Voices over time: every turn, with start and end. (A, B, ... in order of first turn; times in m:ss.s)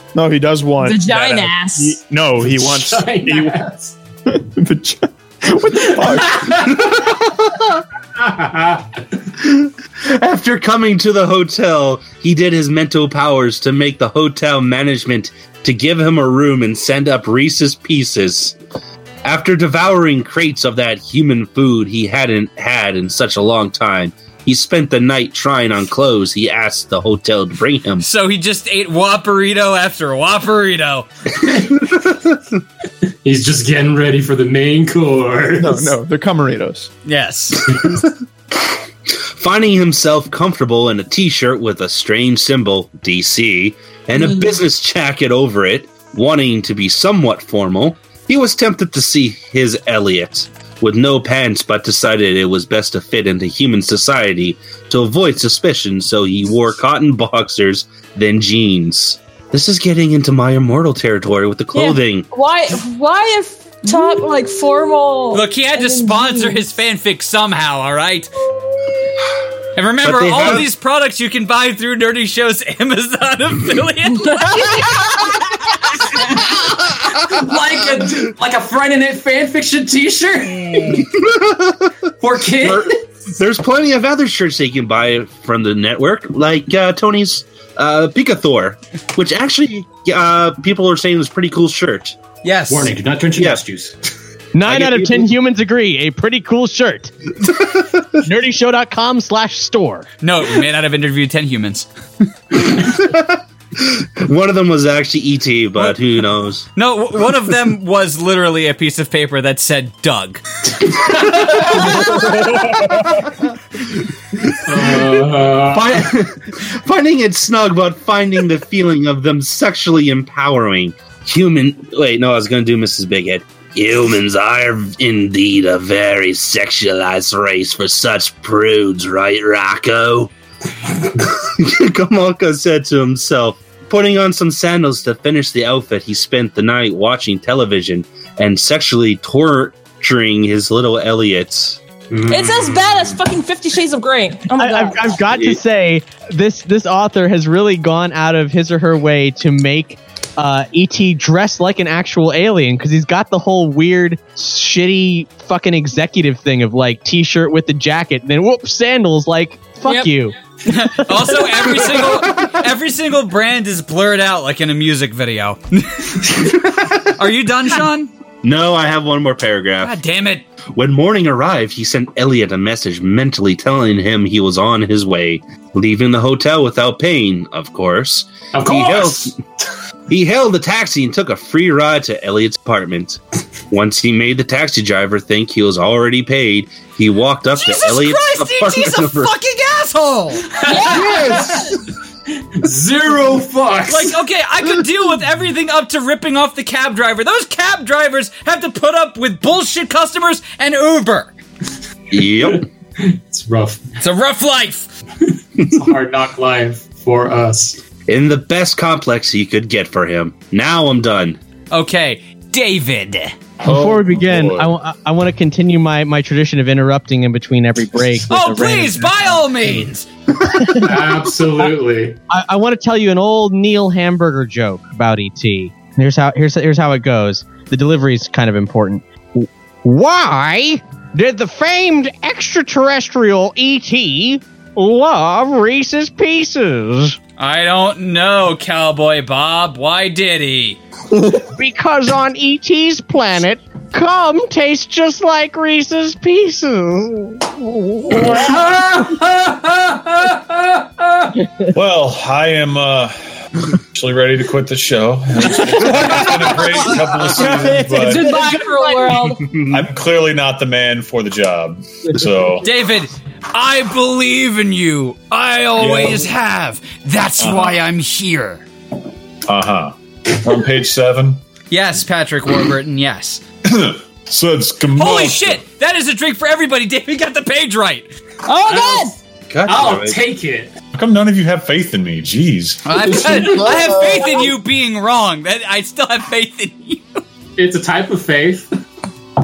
0:00.1-0:03.6 A
0:00.8-0:02.0 B
0:02.4-0:04.0 C
0:04.3-0:06.7 A
0:05.9-0:07.2 C
0:08.2-0:08.8 C
0:09.4-0:18.6 D
0:19.2-0:28.1 D
0:28.0-0:31.1 E
0:33.2-0:35.9 C
0:35.6-0:36.9 A
0:37.1-0:37.7 E
0:37.8-0:38.1 D
0:39.4-1:02.3 D
1:01.7-1:06.6 B
1:05.3-1:08.3 E
1:09.8-1:14.7 E
1:10.0-1:10.7 D
1:14.1-1:15.4 B
1:17.2-1:21.1 C
1:20.8-1:21.9 D
1:22.2-1:23.0 C
1:22.6-1:32.2 D
1:32.4-1:32.9 E
1:32.7-1:34.0 C
1:33.4-1:33.6 D
1:34.5-1:37.1 F
1:34.7-1:35.2 D
1:38.2-1:40.1 F
1:40.2-1:41.9 E
1:42.6-1:46.7 D
1:46.8-1:50.4 E
1:50.9-1:52.0 C
1:51.4-1:52.4 D
1:52.5-1:52.9 A
1:54.4-1:55.0 D
1:54.6-1:56.2 C
1:55.6-2:10.3 D
2:11.0-2:22.3 D
2:22.1-2:22.8 C
2:22.3-2:25.2 B
2:24.6-2:40.4 F
2:39.8-2:40.2 B
2:40.7-2:48.1 E
2:48.4-2:50.0 D
2:49.8-2:50.4 E
2:50.8-2:59.4 D
2:58.5-2:59.4 C
3:00.1-3:03.2 D
3:03.7-3:09.3 D
3:07.6-3:10.5 E
3:10.5-3:11.8 C
3:10.7-3:11.7 B
3:10.9-3:11.5 D
3:12.4-3:14.2 C
3:13.9-3:21.3 E
3:22.1-3:22.7 D
3:22.5-3:23.8 C
3:24.0-3:24.9 E
3:25.6-3:27.8 C
3:28.1-3:31.4 D
3:31.7-3:33.3 E
3:33.6-3:34.7 G
3:33.6-3:39.9 F
3:38.3-3:40.1 E
3:40.4-3:41.1 F
3:40.8-3:42.2 C
3:42.3-3:57.2 F
3:57.4-4:00.8 E
4:01.5-4:08.4 F
4:08.2-4:10.8 C
4:11.7-4:18.3 G
4:17.3-4:18.3 F
4:18.0-4:19.5 B
4:19.3-4:19.8 D
4:19.7-4:22.7 G
4:22.6-4:28.6 E
4:25.8-4:26.3 G
4:27.4-4:27.8 G
4:29.5-4:31.4 G
4:31.7-4:33.4 E
4:33.7-4:35.6 G
4:35.0-4:38.1 E
4:38.4-4:39.2 B
4:38.7-4:39.1 C
4:39.5-4:40.2 D
4:39.7-4:40.7 C
4:40.9-4:42.8 G
4:42.8-4:47.2 E
4:43.2-4:44.0 A
4:47.6-4:48.7 C